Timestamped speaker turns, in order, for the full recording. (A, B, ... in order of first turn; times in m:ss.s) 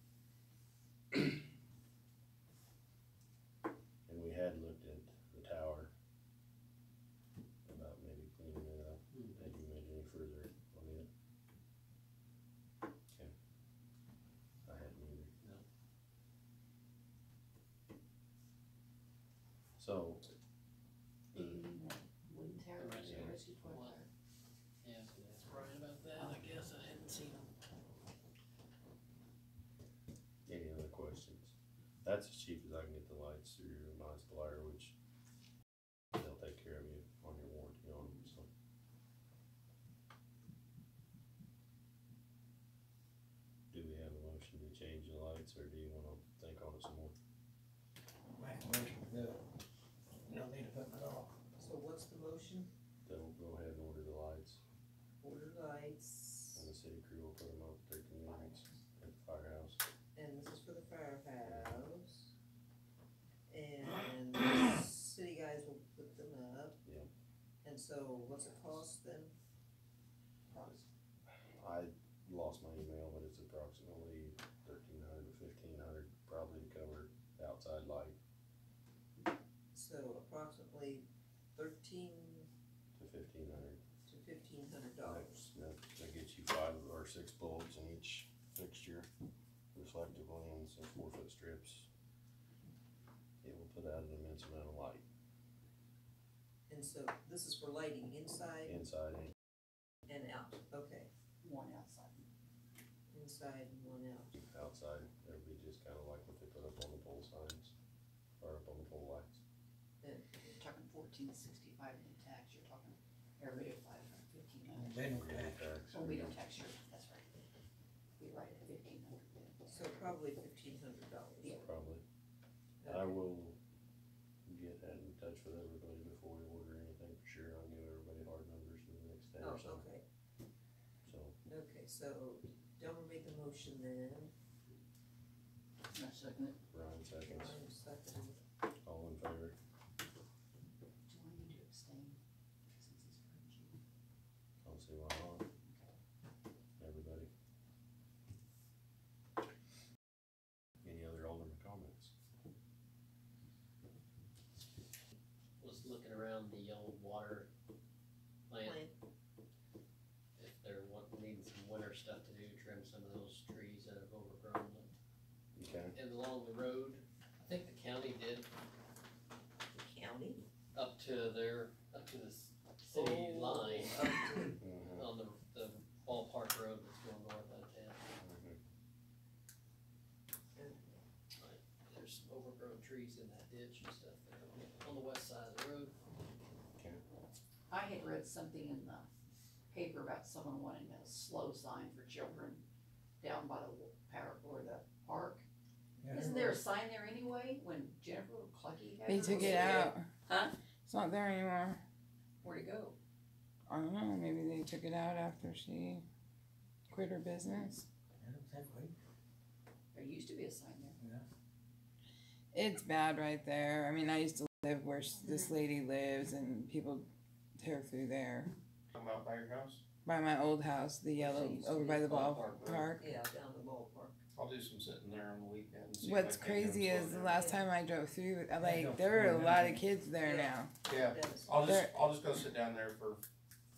0:04.0-0:05.9 A
0:07.6-0:11.1 A
0:09.1-0:09.4 B
0:14.6-0:15.3 A
0:19.8-0:20.2 A
0:21.3-0:21.6 A
0:21.3-0:24.1 C
0:22.8-0:24.0 B
0:23.0-0:23.3 A
0:24.8-0:27.5 B
0:26.2-0:26.5 C
0:30.4-0:34.9 A
0:36.2-0:38.5 A
0:43.7-0:47.1 A
0:48.4-0:49.4 D
0:50.2-0:51.3 D
0:51.6-0:52.7 E
0:53.0-0:54.6 A
0:55.2-0:56.7 E
0:56.5-0:59.8 A
1:00.1-1:02.3 E
1:01.4-1:01.7 A
1:03.5-1:06.8 E
1:07.6-1:09.3 E
1:11.4-1:18.2 A
1:19.7-1:22.5 E
1:22.9-1:23.8 A
1:24.1-1:25.5 E
1:25.1-1:29.1 A
1:29.7-1:31.9 A
1:33.4-1:35.0 A
1:36.7-1:38.8 E
1:38.6-1:39.3 A
1:40.1-1:41.1 E
1:41.4-1:42.2 C
1:43.1-1:44.3 E
1:44.3-1:47.7 A
1:48.4-1:49.4 A
1:50.0-1:50.5 E
1:50.5-1:55.0 C
1:54.7-1:55.8 D
1:55.0-1:56.3 A
1:55.9-1:57.3 C
1:58.2-1:59.8 C
1:59.7-2:01.6 E
2:01.5-2:02.0 A
2:02.8-2:03.2 E
2:02.8-2:03.6 A
2:04.4-2:09.8 A
2:09.4-2:10.0 E
2:11.0-2:11.3 A
2:11.5-2:14.3 E
2:15.9-2:16.6 C
2:16.7-2:17.6 A
2:17.2-2:18.4 E
2:18.8-2:19.6 A
2:21.1-2:22.2 C
2:22.7-2:23.8 C
2:24.6-2:25.4 A
2:25.6-2:25.9 C
2:26.8-2:27.3 A
2:30.8-2:32.1 A
2:35.6-2:37.5 B
2:38.5-2:38.8 B
2:38.6-2:38.9 E
2:40.4-2:44.9 B
2:45.6-2:45.9 A
2:45.9-2:48.5 B
2:49.7-2:50.4 E
2:50.7-2:58.0 B
2:52.9-2:54.6 E
2:54.6-2:55.1 A
2:58.2-2:58.6 A
3:00.6-3:01.0 E
3:01.4-3:06.0 B
3:07.7-3:09.1 C
3:09.7-3:12.6 C
3:13.2-3:15.4 C
3:16.0-3:16.3 D
3:16.1-3:20.5 C
3:19.0-3:20.1 F
3:19.2-3:19.9 E
3:20.8-3:21.8 F
3:22.4-3:22.9 C
3:23.7-3:26.0 F
3:26.9-3:27.8 F
3:28.2-3:28.9 D
3:29.9-3:31.0 C
3:31.0-3:31.2 D
3:32.5-3:37.0 F
3:37.6-3:38.5 F
3:38.9-3:39.8 G
3:40.0-3:43.0 F
3:41.8-3:42.5 B
3:41.8-3:42.9 G
3:42.9-3:44.2 E
3:44.3-3:47.5 G
3:46.0-3:50.8 F
3:48.6-3:49.8 D
3:50.2-3:51.6 E
3:50.8-3:53.2 G
3:51.6-3:51.9 F